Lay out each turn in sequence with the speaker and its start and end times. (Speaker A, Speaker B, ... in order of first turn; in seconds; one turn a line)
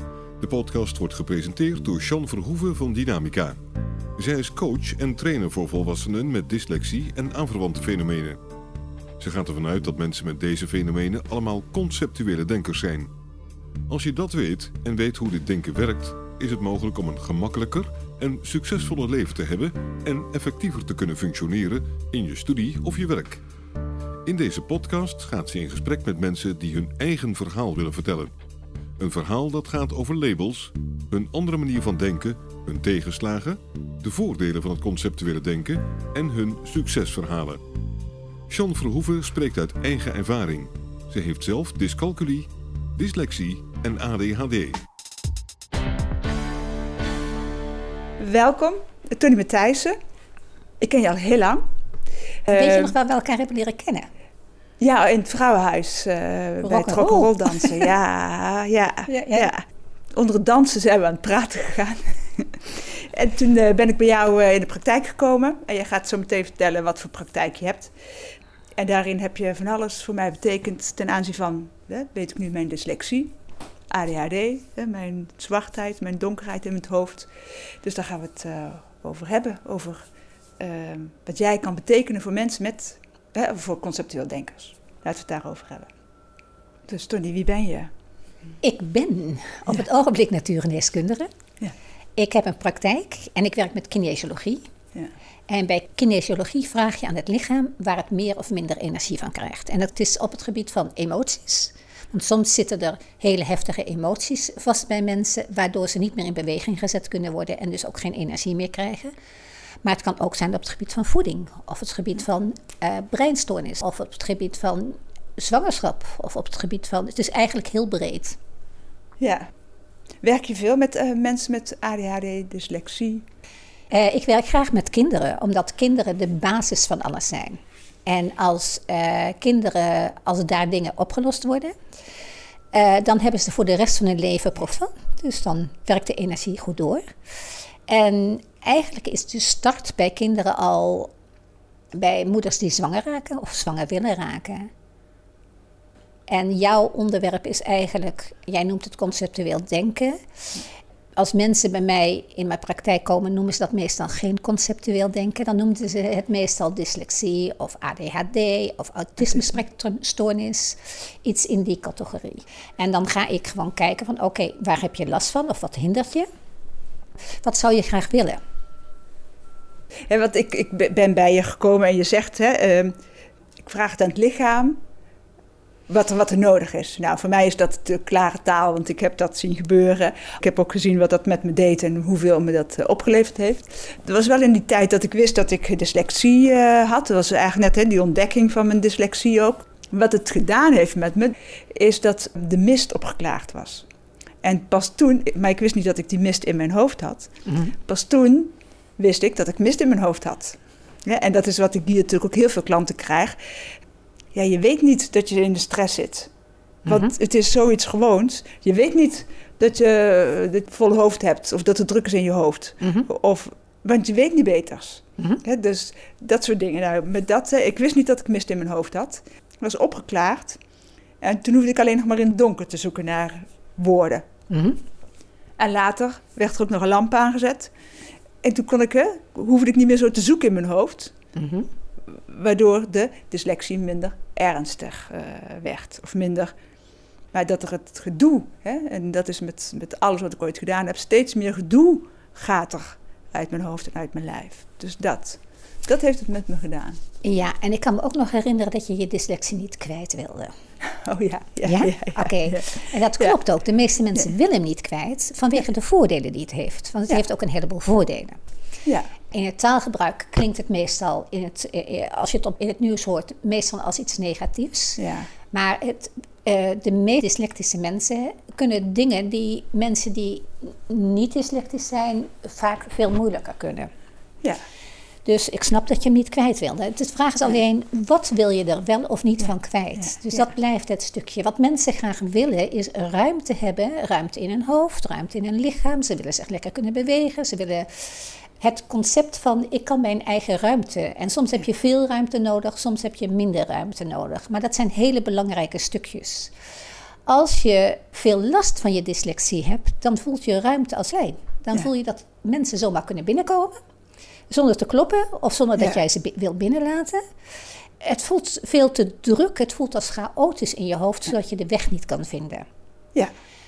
Speaker A: 0.4-3.6
Speaker A: 4.2-8.4
Speaker A: 9.2-13.1
Speaker A: 13.9-23.4
Speaker A: 24.2-28.3
Speaker A: 29.0-37.6
Speaker A: 38.5-44.8
Speaker B: 48.2-49.9
Speaker B: 50.8-51.6
Speaker B: 52.5-52.9
Speaker C: 52.5-54.1
Speaker B: 54.8-67.9
Speaker C: 56.6-57.9
Speaker C: 59.0-59.5
Speaker B: 68.8-73.3
Speaker B: 73.9-77.3
Speaker B: 77.8-80.0
Speaker B: 80.6-85.9
Speaker B: 86.9-87.9
Speaker C: 88.6-91.3
Speaker C: 92.2-94.6
Speaker C: 95.5-109.1
Speaker C: 109.8-118.4
Speaker B: 119.2-119.5
Speaker B: 120.2-123.2
Speaker C: 123.9-131.7
Speaker C: 132.7-137.1
Speaker C: 137.9-141.1
Speaker C: 141.9-144.7
Speaker C: 146.3-150.2
Speaker C: 151.2-166.3
Speaker C: 167.4-168.4
Speaker B: 170.1-172.9
Speaker B: 173.6-174.8
Speaker B: 175.9-193.8
Speaker B: 194.4-197.3
Speaker C: 197.4-197.7
Speaker B: 197.8-203.4
Speaker B: 204.3-206.3
Speaker C: 206.8-207.1
Speaker B: 206.9-220.6
Speaker C: 212.8-213.1
Speaker B: 221.2-224.2
Speaker C: 224.5-224.8
Speaker B: 225.6-227.7
Speaker B: 228.4-231.1
Speaker C: 231.3-231.7
Speaker B: 232.1-236.5
Speaker B: 237.3-247.0
Speaker C: 247.2-250.5
Speaker B: 250.9-253.3
Speaker C: 251.6-258.4
Speaker C: 259.3-265.0
Speaker B: 265.0-265.3
Speaker C: 265.5-273.9
Speaker C: 275.2-296.5
Speaker B: 280.1-280.4
Speaker C: 297.3-303.8
Speaker C: 304.5-307.2
Speaker C: 308.0-312.6